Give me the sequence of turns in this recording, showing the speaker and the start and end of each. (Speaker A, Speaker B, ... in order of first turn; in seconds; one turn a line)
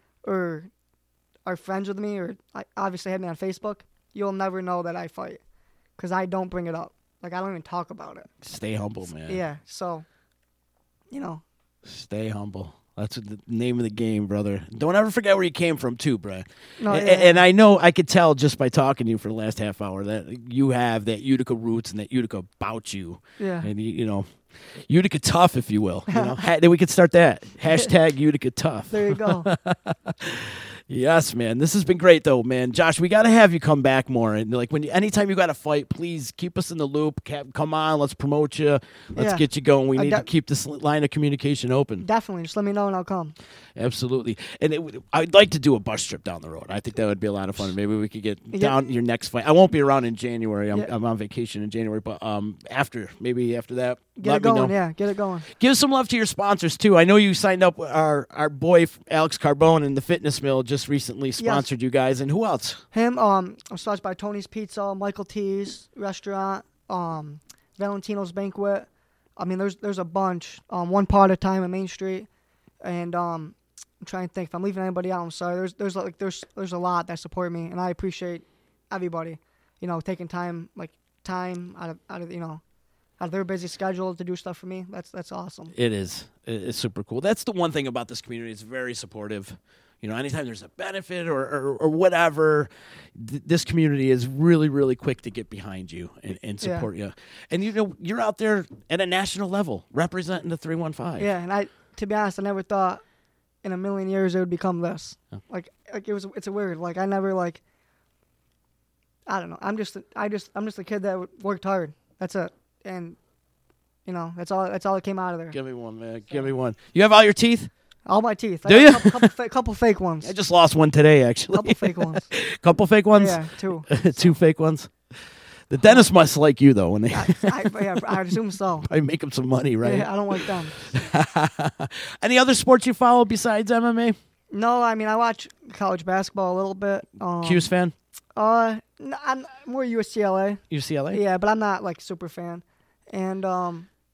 Speaker A: 0.2-0.7
Speaker A: 1.4-5.4
Speaker A: 6.0-8.3
Speaker B: 8.4-9.4
Speaker A: 9.1-10.0
Speaker A: 11.1-11.4
Speaker B: 11.8-42.0
Speaker A: 16.8-17.4
Speaker A: 23.4-23.7
Speaker A: 26.1-26.4
Speaker A: 28.9-29.5
Speaker A: 39.1-40.3
Speaker A: 42.0-43.4
Speaker B: 43.7-54.8
Speaker A: 48.5-48.8
Speaker A: 54.2-55.5
Speaker B: 55.5-62.8
Speaker A: 61.4-61.7
Speaker A: 62.9-72.3
Speaker A: 72.8-82.6
Speaker A: 83.2-85.7
Speaker B: 85.7-101.3
Speaker A: 96.6-96.9
Speaker A: 101.2-103.0
Speaker A: 103.6-107.6
Speaker A: 109.2-113.2
Speaker A: 114.0-115.6
Speaker B: 115.5-117.7
Speaker A: 118.0-120.3
Speaker B: 118.7-119.3
Speaker B: 120.2-124.9
Speaker A: 121.5-122.3
Speaker A: 123.1-124.3
Speaker B: 125.7-134.2
Speaker A: 125.8-126.1
Speaker A: 127.1-128.9
Speaker A: 129.8-130.8
Speaker A: 134.5-137.7
Speaker B: 137.4-137.9
Speaker A: 138.3-143.9
Speaker B: 140.7-141.2